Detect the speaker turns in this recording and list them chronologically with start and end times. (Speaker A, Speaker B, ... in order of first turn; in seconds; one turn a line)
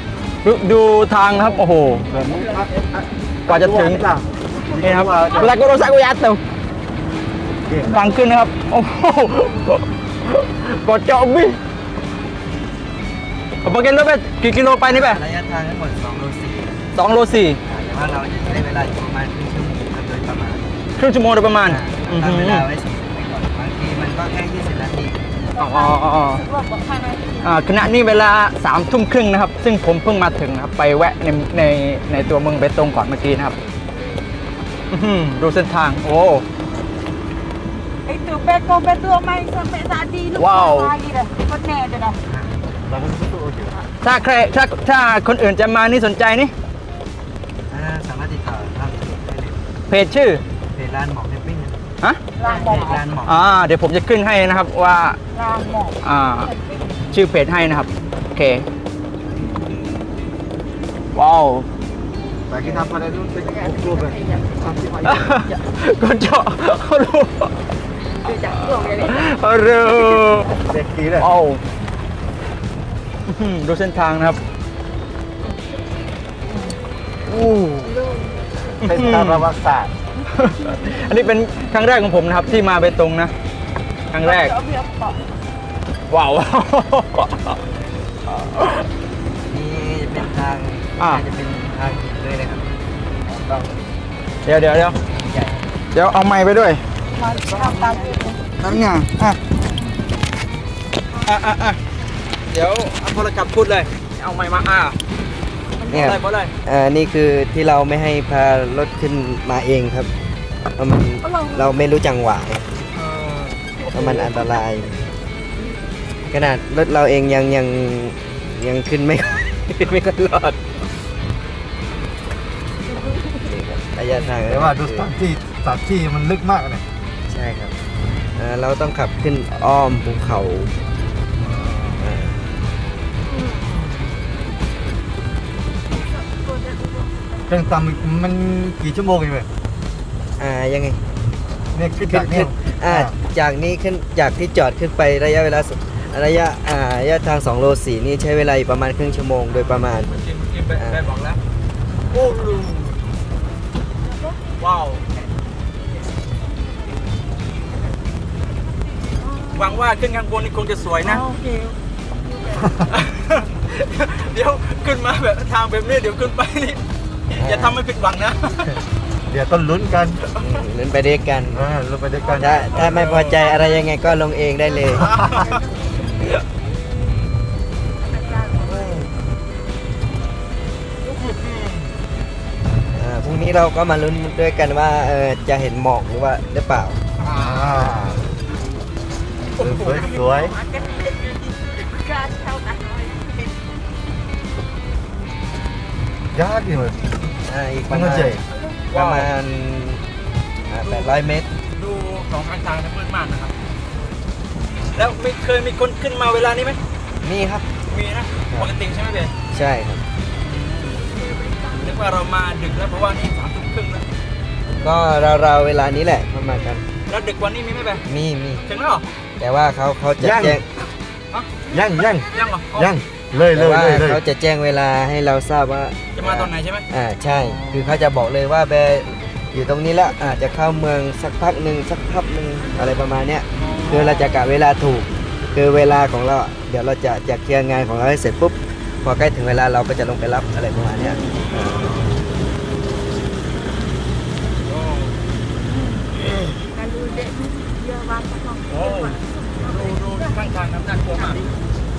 Speaker A: 0.4-2.1
Speaker B: 2.1-2.7
Speaker A: 3.5-4.1
Speaker B: 3.5-5.5
Speaker A: 4.8-6.4
Speaker A: 7.8-11.6
Speaker A: 13.6-15.2
Speaker C: 14.9-16.8
Speaker A: 16.9-17.6
Speaker C: 17.6-20.8
Speaker A: 21.0-22.7
Speaker C: 21.6-25.2
Speaker A: 25.6-26.4
Speaker D: 25.6-27.4
Speaker A: 27.4-33.6
Speaker A: 34.9-36.5
Speaker D: 38.1-42.2
Speaker A: 40.4-41.0
Speaker C: 42.3-42.5
Speaker B: 42.9-43.8
Speaker A: 44.0-46.5
Speaker C: 47.7-49.6
Speaker A: 49.9-50.4
Speaker C: 50.7-51.8
Speaker A: 52.0-55.2
Speaker C: 52.5-53.4
Speaker D: 55.4-55.9
Speaker A: 56.0-56.5
Speaker A: 57.1-58.7
Speaker A: 61.1-61.7
Speaker B: 62.5-64.2
Speaker D: 63.4-64.6
Speaker B: 64.7-65.2
Speaker A: 65.0-67.5
Speaker D: 68.3-69.2
Speaker A: 68.3-70.5
Speaker B: 70.7-71.3
Speaker A: 71.2-71.6
Speaker A: 73.3-74.4
Speaker A: 77.3-78.0
Speaker D: 77.8-78.4
Speaker A: 78.8-79.5
Speaker B: 78.8-79.9
Speaker A: 80.3-83.3
Speaker A: 84.1-84.6
Speaker D: 84.2-85.2
Speaker A: 86.1-87.6
Speaker A: 88.3-88.9
Speaker C: 89.5-92.7
Speaker C: 93.3-93.7
Speaker A: 94.5-95.0
Speaker C: 95.1-95.7
Speaker A: 95.9-96.8
Speaker D: 97.2-98.4
Speaker A: 97.3-99.4
Speaker A: 101.2-101.8
Speaker A: 102.5-105.0
Speaker C: 105.9-110.1
Speaker A: 105.9-106.5
Speaker C: 110.8-112.7
Speaker A: 113.0-114.4
Speaker C: 113.9-115.1
Speaker C: 116.3-120.6
Speaker C: 123.2-125.1
Speaker B: 124.4-126.8
Speaker C: 127.3-127.7
Speaker C: 128.4-130.7
Speaker B: 131.5-131.8
Speaker C: 131.9-132.4
Speaker D: 133.3-133.6
Speaker D: 136.0-137.4
Speaker B: 137.5-139.5
Speaker C: 140.4-141.0
Speaker B: 141.8-143.1
Speaker C: 142.0-150.2
Speaker A: 149.6-151.4
Speaker C: 150.8-151.1
Speaker A: 152.1-153.0
Speaker A: 154.6-155.1
Speaker D: 159.2-159.7
Speaker A: 159.5-161.3
Speaker D: 161.1-162.7
Speaker A: 162.8-166.8
Speaker C: 167.4-167.8
Speaker A: 167.4-168.8
Speaker B: 169.3-170.2
Speaker C: 170.4-171.7
Speaker B: 171.6-173.3
Speaker C: 172.3-175.2
Speaker A: 173.1-173.5
Speaker B: 175.0-175.3
Speaker D: 175.5-175.8
Speaker D: 178.0-179.0
Speaker C: 182.9-187.0
Speaker A: 187.2-187.8
Speaker B: 187.4-188.2
Speaker A: 189.6-190.2
Speaker C: 189.6-190.2
Speaker B: 189.6-190.6
Speaker D: 190.4-193.5
Speaker B: 196.3-197.1
Speaker C: 197.5-198.4
Speaker B: 197.9-198.4
Speaker A: 198.9-199.3
Speaker C: 198.9-200.0
Speaker C: 200.7-201.5
Speaker A: 200.8-201.2
Speaker A: 201.8-203.6
Speaker A: 204.9-206.8
Speaker C: 207.2-207.7
Speaker A: 207.9-209.3
Speaker C: 209.5-210.1
Speaker A: 210.4-211.1
Speaker D: 211.3-211.6
Speaker A: 211.7-214.1
Speaker C: 214.8-216.8
Speaker A: 217.1-218.0
Speaker C: 218.1-218.6
Speaker A: 218.7-219.1
Speaker C: 219.4-220.7
Speaker B: 220.2-220.6
Speaker B: 221.7-224.2
Speaker A: 222.3-222.9
Speaker C: 223.5-242.0
Speaker A: 226.2-226.8
Speaker A: 227.5-227.9
Speaker A: 233.6-234.2
Speaker A: 241.2-242.1
Speaker A: 244.7-245.2
Speaker D: 246.7-250.4
Speaker A: 248.7-251.4
Speaker D: 251.1-251.5